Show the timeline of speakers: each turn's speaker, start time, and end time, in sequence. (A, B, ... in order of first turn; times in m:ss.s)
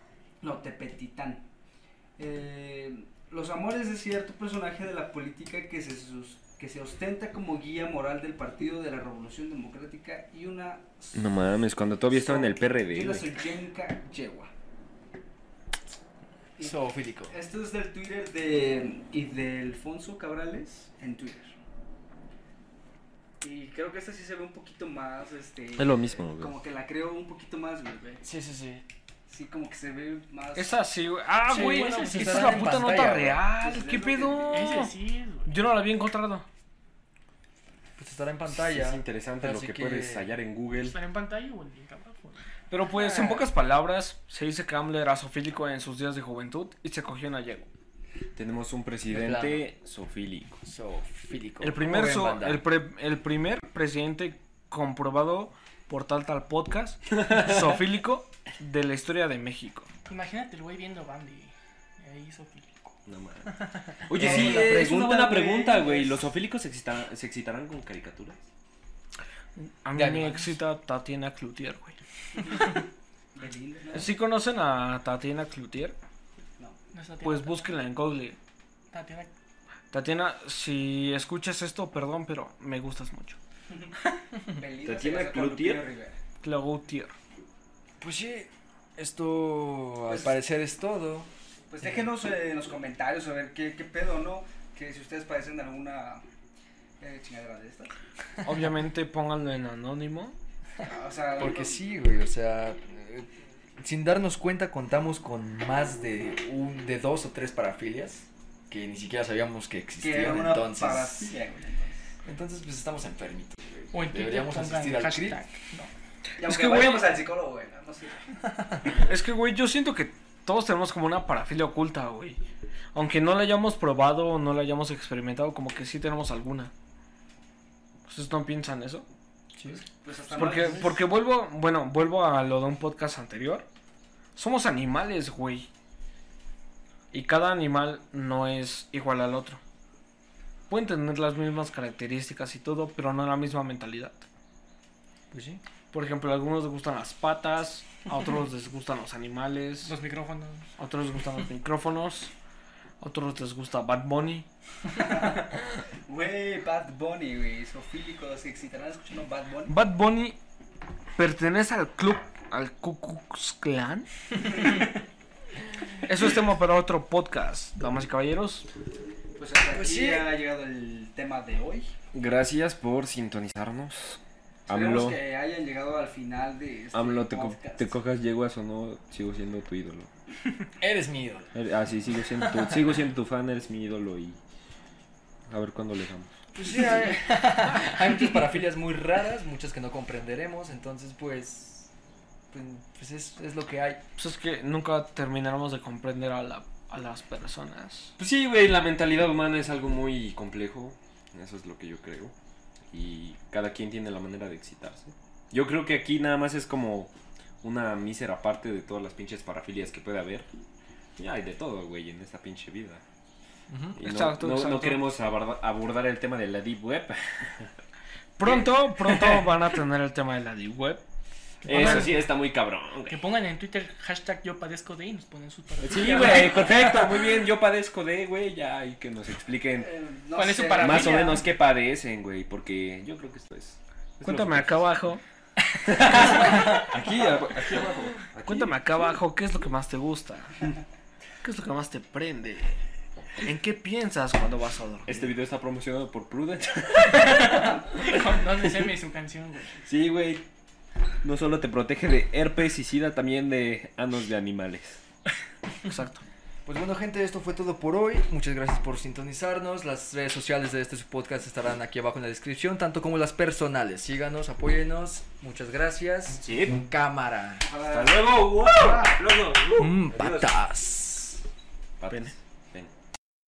0:00.4-0:01.5 A
0:02.2-0:11.3 A
0:11.1-0:13.3 B
0:12.1-0:14.5 A
0:16.6-0:17.4 C
0:17.3-0:21.6 A
0:23.4-0:28.2 A
0:25.8-0:26.5 B
0:28.2-0:28.8 C
0:29.3-0:30.8 A
0:30.5-0:34.9 D
0:31.5-0:33.4 C
0:31.5-0:32.8 E
0:33.6-0:34.8 A
0:34.5-0:35.6 E
0:35.5-0:36.4 D
0:38.0-0:40.3 C
0:38.6-0:41.0 B
0:40.8-0:42.5 E
0:42.7-0:47.7 D
0:42.9-0:43.5 C
0:48.3-0:50.6 B
0:49.1-0:49.7 C
0:50.6-0:52.6 C
0:51.6-0:59.9 D
1:00.1-1:03.0 E
1:03.0-1:08.4 B
1:04.1-1:06.2 A
1:04.2-1:04.8 C
1:09.6-1:12.0 D
1:09.9-1:10.5 C
1:13.3-1:14.1 A
1:13.9-1:16.0 D
1:16.9-1:17.7 E
1:17.2-1:18.4 D
1:18.9-1:19.3 E
1:19.9-1:23.4 D
1:24.5-1:26.2 A
1:24.8-1:25.8 B
1:26.4-1:27.1 D
1:28.0-1:31.3 C
1:30.1-1:30.3 A
1:31.7-1:36.2 A
1:37.0-1:37.9 A
1:38.4-1:40.4 D
1:40.8-1:41.8 A
1:41.4-1:43.3 C
1:43.8-1:51.3 C
1:50.0-1:52.0 A
1:52.2-1:55.4 C
1:53.9-1:55.9 E
1:56.4-1:58.2 A
1:56.4-1:57.1 D
1:59.0-2:02.4 D
2:02.9-2:06.7 D
2:08.1-2:09.1 D
2:09.6-2:09.8 C
2:09.9-2:11.0 A
2:10.3-2:13.6 D
2:14.3-2:15.7 D
2:17.1-2:19.6 D
2:20.7-2:24.2 D
2:25.3-2:25.6 C
2:25.9-2:30.0 D
2:29.8-2:30.7 E
2:30.8-2:32.3 D
2:33.0-2:34.4 D
2:34.9-2:35.5 A
2:36.1-2:39.8 A
2:39.7-2:40.4 D
2:41.2-2:44.7 D
2:46.0-2:48.7 D
2:49.4-2:51.9 A
2:49.7-2:50.3 C
2:52.1-2:55.2 B
2:54.7-2:58.0 A
2:56.9-3:00.1 B
3:00.8-3:01.5 C
3:01.5-3:04.4 B
3:02.3-3:03.0 C
3:05.5-3:06.3 B
3:06.5-3:11.9 C
3:12.5-3:14.0 C
3:14.2-3:18.1 D
3:18.2-3:22.3 B
3:22.9-3:30.5 B
3:31.2-3:33.0 B
3:33.7-3:34.0 C
3:34.0-3:37.7 B
3:34.0-3:35.0 D
3:38.4-3:41.0 D
3:38.4-3:39.5 B
3:41.6-3:42.2 C
3:41.6-3:43.3 B
3:41.7-3:42.1 D
3:43.1-3:47.2 E
3:45.8-3:49.9 B
3:49.8-3:51.4 A
3:50.3-3:51.5 E
3:50.8-3:54.9 B
3:54.2-3:55.2 D
3:55.8-3:58.8 B
3:56.2-3:57.0 C
3:56.5-3:56.9 E
3:58.4-4:00.6 D
4:01.4-4:02.8 D
4:03.4-4:05.3 D
4:05.1-4:08.9 B
4:07.1-4:09.8 E
4:09.8-4:10.4 B
4:11.2-4:15.0 B
4:15.9-4:16.2 D
4:16.6-4:27.6 C
4:26.4-4:26.8 B
4:27.6-4:29.2 A
4:27.9-4:30.5 B
4:29.8-4:31.4 C
4:32.0-4:32.9 B
4:32.1-4:32.3 D